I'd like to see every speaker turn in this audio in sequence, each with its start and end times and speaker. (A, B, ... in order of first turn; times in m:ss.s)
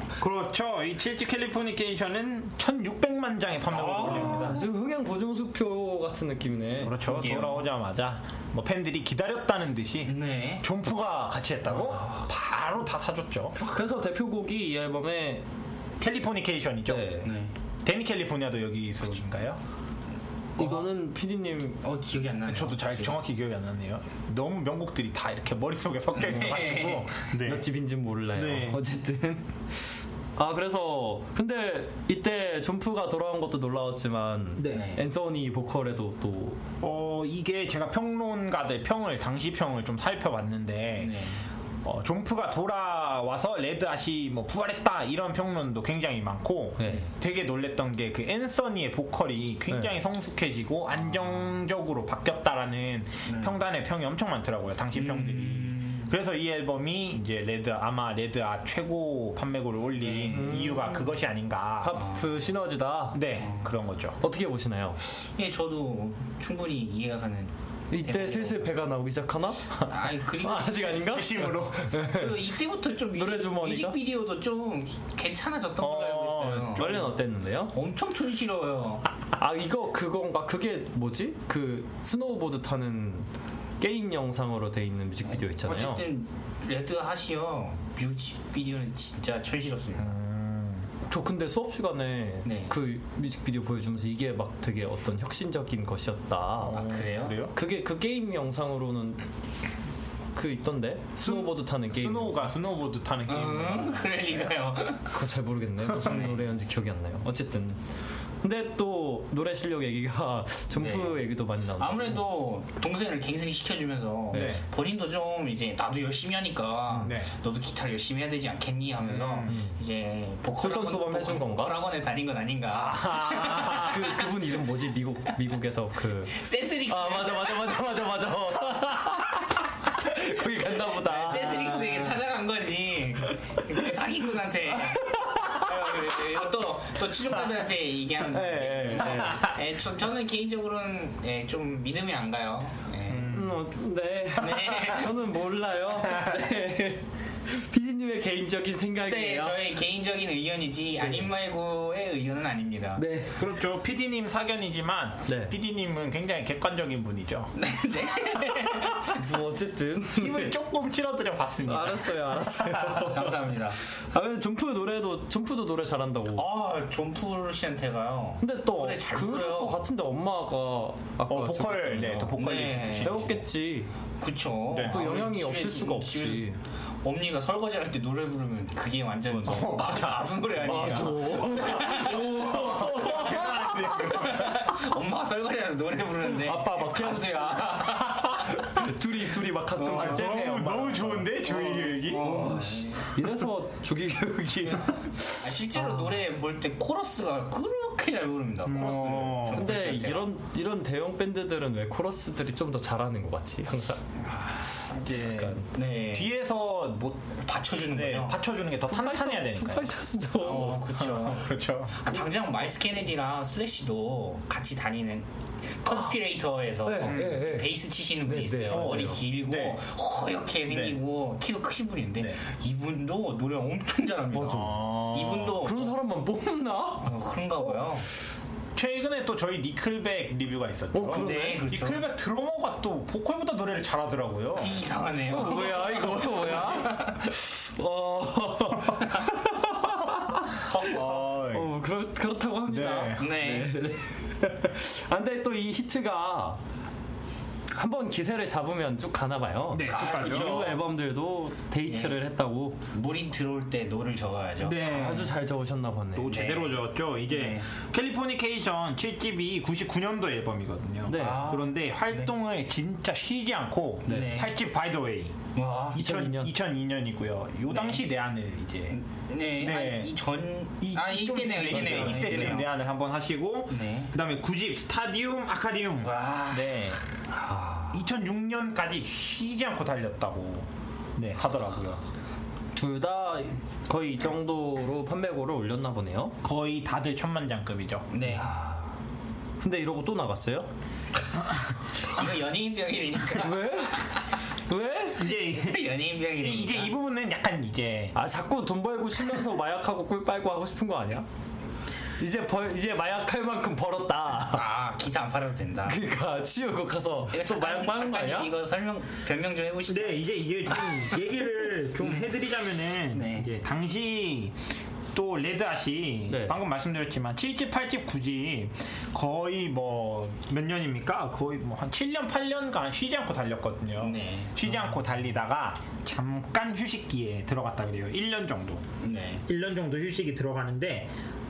0:00.2-0:04.6 A
0:03.7-0:04.6 B
0:03.9-0:07.0 C
0:06.8-0:13.6 A
0:07.0-0:07.6 B
0:10.0-0:10.6 B
0:11.9-0:12.2 C
0:13.6-0:15.4 C
0:16.0-0:17.1 A
0:16.9-0:17.3 C
0:17.2-0:17.5 B
0:17.8-0:19.6 A
0:20.6-0:21.8 C
0:20.6-0:20.8 A
0:21.8-0:23.2 B
0:22.4-0:27.7 A
0:26.1-0:27.1 B
0:26.6-0:29.5 C
0:28.3-0:28.8 A
0:30.4-0:36.6 C
0:34.6-0:34.9 A
0:34.7-0:35.0 B
0:36.8-0:41.2 A
0:41.0-0:41.4 B
0:41.8-1:02.0 A
0:46.8-0:47.0 C
0:49.7-0:50.0 C
0:51.0-0:51.6 B
0:53.3-0:53.6 B
0:54.9-0:56.1 B
1:00.0-1:00.5 B
1:00.3-1:01.0 C
1:01.8-1:03.2 C
1:01.9-1:02.4 B
1:03.1-1:04.2 A
1:03.4-1:03.7 B
1:04.2-1:05.0 C
1:05.3-1:08.7 B
1:07.9-1:09.7 C
1:09.9-1:11.0 B
1:10.4-1:12.4 C
1:11.0-1:12.0 A
1:12.0-1:17.1 B
1:13.1-1:14.0 C
1:15.8-1:17.1 A
1:16.7-1:17.7 C
1:17.7-1:19.1 B
1:19.4-1:23.3 C
1:23.8-1:26.0 C
1:25.2-1:30.2 B
1:30.0-1:30.9 A
1:31.1-1:39.2 C
1:32.4-1:32.7 B
1:36.6-1:37.5 A
1:36.7-1:37.4 B
1:40.3-1:42.6 C
1:41.2-1:44.4 A
1:43.3-1:45.1 B
1:45.1-1:47.8 C
1:46.0-1:46.5 B
1:48.4-1:52.2 C
1:50.7-1:51.2 B
1:51.8-2:04.3 B
1:54.3-1:54.6 C
1:54.3-1:54.6 A
1:56.9-1:57.3 A
1:59.1-1:59.6 A
1:59.5-1:59.8 C
2:00.6-2:01.8 C
2:02.7-2:04.1 A
2:03.5-2:12.2 C
2:06.3-2:07.9 B
2:10.8-2:23.3 B
2:14.8-2:15.7 C
2:18.3-2:19.5 C
2:19.1-2:19.6 A
2:23.1-2:23.6 A
2:23.3-2:29.6 C
2:24.4-2:25.1 B
2:26.1-2:26.4 A
2:29.0-2:33.0 B
2:33.0-2:33.4 C
2:33.4-2:37.5 A
2:35.2-2:35.6 C
2:37.5-2:39.2 B
2:38.7-2:39.0 A
2:39.1-2:40.5 C
2:40.2-2:42.9 A
2:41.6-2:46.5 C
2:42.9-2:43.8 B
2:46.3-2:49.8 B
2:48.4-2:52.4 C
2:51.3-2:53.4 A
2:52.3-2:53.2 B
2:53.0-2:53.9 C
2:54.2-2:56.5 B
2:54.7-2:55.2 A
2:54.8-2:56.6 C
2:57.0-3:08.7 B
2:59.3-2:59.7 C
2:59.4-3:04.7 A
3:00.6-3:04.1 C
3:06.3-3:16.1 C
3:09.8-3:10.4 B
3:09.9-3:12.4 A
3:11.5-3:13.0 B
3:15.4-3:20.3 B
3:18.7-3:19.8 A
3:18.7-3:24.0 C
3:24.2-3:25.1 B
3:24.9-3:27.3 A
3:25.2-3:25.7 C
3:25.7-3:26.3 B
3:27.4-3:28.4 B
3:27.9-3:29.9 A
3:28.9-3:30.9 C
3:30.4-3:46.0 B
3:30.9-3:32.0 A
3:36.8-3:39.2 C
3:37.0-3:37.4 A
3:38.7-3:39.8 A
3:40.7-3:41.0 A
3:44.3-3:44.8 C
3:44.4-3:45.6 A
3:45.6-3:47.1 C
3:47.0-3:48.0 B
3:48.7-3:54.8 A
3:50.9-3:51.6 C
3:51.1-3:52.0 B
3:54.6-3:57.3 B
3:55.3-4:06.6 C
4:00.1-4:01.7 A
4:00.7-4:01.1 B
4:02.7-4:03.3 A
4:03.2-4:03.7 B
4:07.7-4:12.8 C
4:09.7-4:10.8 A
4:09.8-4:10.8 B
4:11.9-4:12.2 B
4:12.9-4:15.2 B
4:14.6-4:15.3 A
4:14.8-4:16.3 C
4:16.1-4:29.0 A
4:16.3-4:17.6 B
4:21.1-4:21.5 C
4:21.1-4:22.3 B
4:24.1-4:24.5 B
4:25.5-4:26.0 B
4:25.9-4:26.5 C
4:27.7-4:28.0 B
4:28.9-4:32.7 B
4:29.6-4:30.1 A
4:30.8-4:37.0 A
4:31.7-4:32.5 C
4:33.7-4:34.1 B
4:36.0-4:36.8 B
4:37.3-4:38.0 C
4:37.9-4:42.0 A
4:42.7-4:46.4 C
4:46.4-4:48.1 A
4:48.1-4:48.5 B
4:48.2-4:48.9 C
4:49.6-4:50.7 C
4:52.1-4:54.2 B
4:53.4-4:54.1 C
4:54.7-4:55.3 C
4:55.2-4:58.2 A
4:55.3-4:56.9 B
4:58.1-5:01.3 C
5:02.2-5:04.7 C
5:04.5-5:06.0 B
5:05.8-5:08.5 C
5:07.3-5:10.2 B
5:09.9-5:14.6 A
5:12.0-5:12.3 B
5:13.1-5:13.5 B
5:15.1-5:28.8 A
5:16.3-5:16.6 C
5:24.0-5:24.6 B
5:29.0-5:29.4 B
5:29.4-5:31.1 A